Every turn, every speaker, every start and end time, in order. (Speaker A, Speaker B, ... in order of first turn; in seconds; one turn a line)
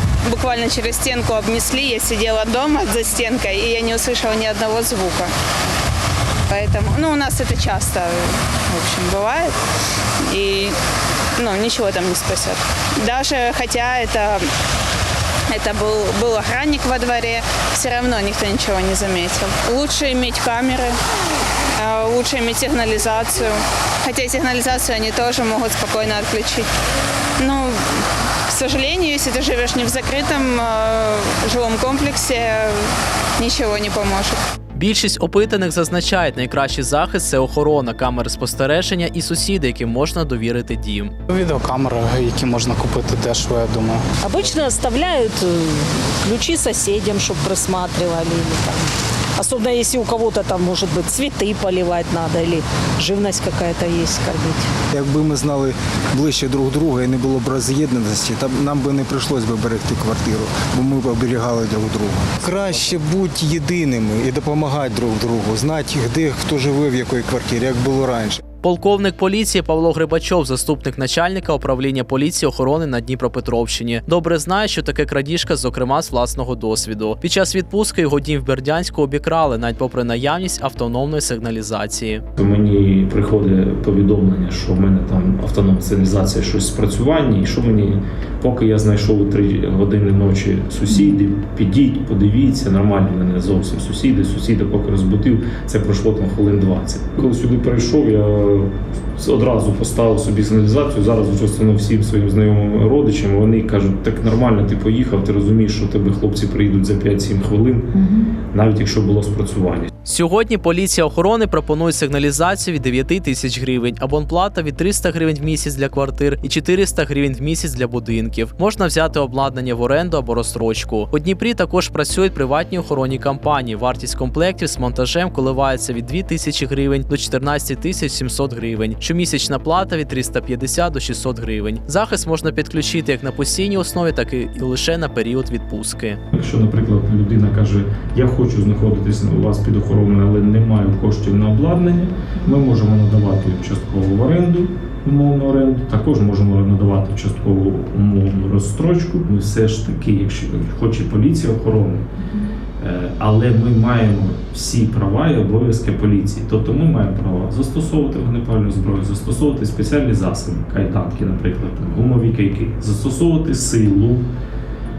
Speaker A: 0.3-5.3
Speaker A: 6.5-9.6
Speaker A: 10.2-10.8
Speaker A: 11.4-14.5
Speaker A: 15.5-21.0
Speaker A: 21.8-26.7
Speaker A: 27.4-34.4
Speaker B: 34.8-41.1
Speaker C: 41.3-44.0
Speaker D: 44.2-54.7
Speaker E: 54.9-68.4
Speaker B: 68.6-82.2
Speaker F: 82.4-109.9
Speaker B: 110.1-136.2
Speaker F: 136.3-152.1
Speaker F: 152.8-164.2